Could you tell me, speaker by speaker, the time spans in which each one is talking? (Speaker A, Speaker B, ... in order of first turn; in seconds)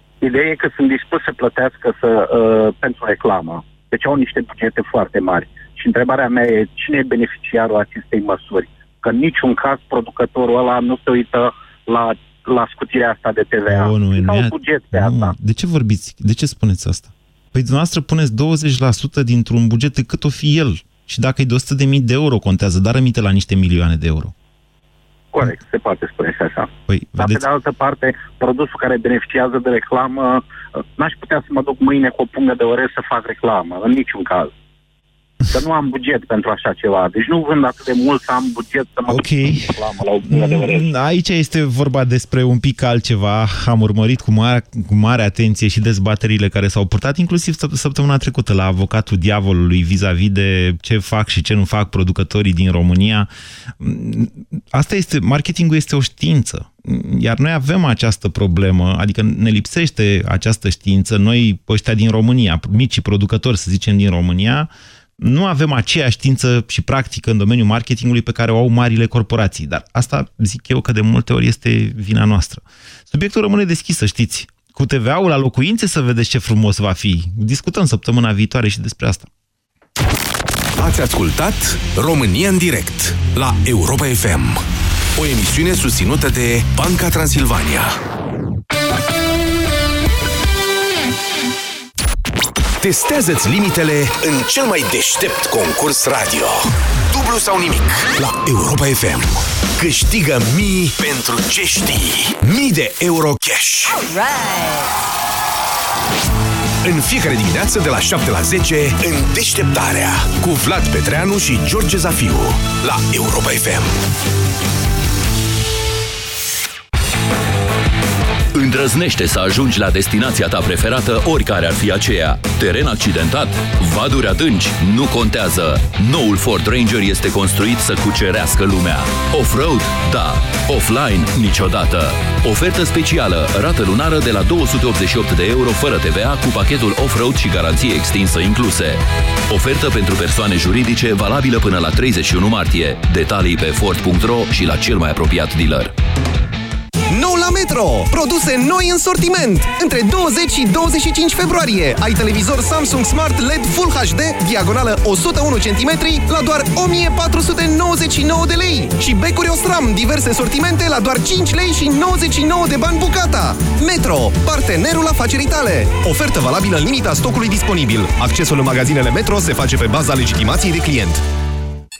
Speaker A: 0.2-15.3, 25.3-30.4, 30.9-34.5, 35.5-40.9
Speaker B: 13.7-24.3, 26.9-27.4, 39.1-39.7, 40.3-79.3
Speaker C: 80.8-84.6, 85.2-88.0, 92.8-104.0, 106.8-113.9
Speaker D: 118.5-145.9
Speaker E: 147.1-171.2